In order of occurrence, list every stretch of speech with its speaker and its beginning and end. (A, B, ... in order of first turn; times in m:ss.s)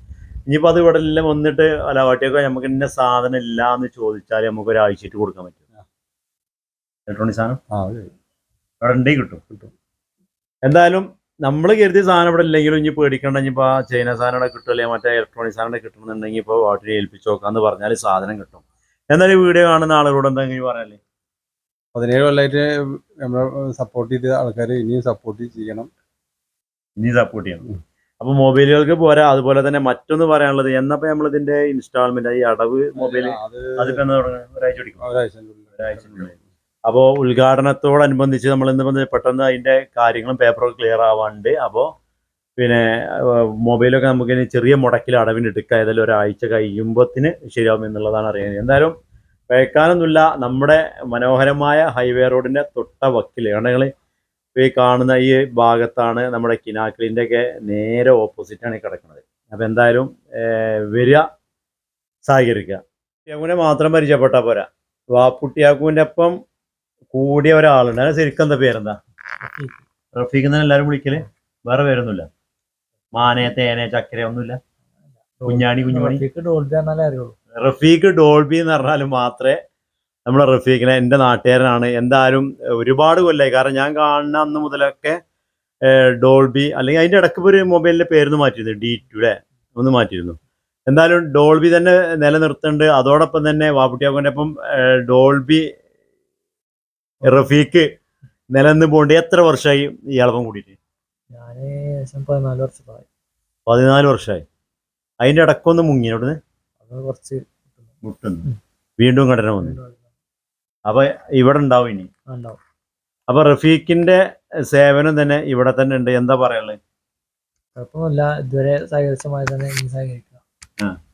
0:00.5-0:05.6 A
0:07.1-0:07.6 A
0:07.7-0:08.1 B
0:08.8-0:09.4 A
0:10.7-0:21.0 A
0:21.9-0:22.7 B
0:23.2-0:25.9 B
0:27.0-0:35.0 A
0:33.0-0:34.0 B
0:35.0-0:36.4 B
0:35.8-0:36.3 A
0:36.9-0:41.9 A
0:42.6-0:48.9 A
0:49.5-0:53.9 A
0:54.6-1:01.2 A
1:02.3-1:06.4 A
1:07.1-1:09.0 A
1:09.4-1:09.8 C
1:10.2-1:12.3 A
1:13.2-1:14.6 A
1:15.4-1:17.4 C
1:15.5-1:16.2 A
1:17.6-1:19.6 A
1:20.3-1:25.2 A
1:25.9-1:35.6 A
1:37.2-1:37.8 A
1:38.5-1:40.8 A
1:41.3-1:43.1 C
1:43.7-1:44.4 A
1:45.2-1:46.4 A
1:46.8-1:47.9 C
1:48.0-1:48.5 A
1:49.0-1:49.8 A
1:49.6-1:50.1 C
1:50.9-1:52.1 A
1:52.3-1:52.6 C
1:53.3-1:56.8 A
1:57.8-2:00.4 C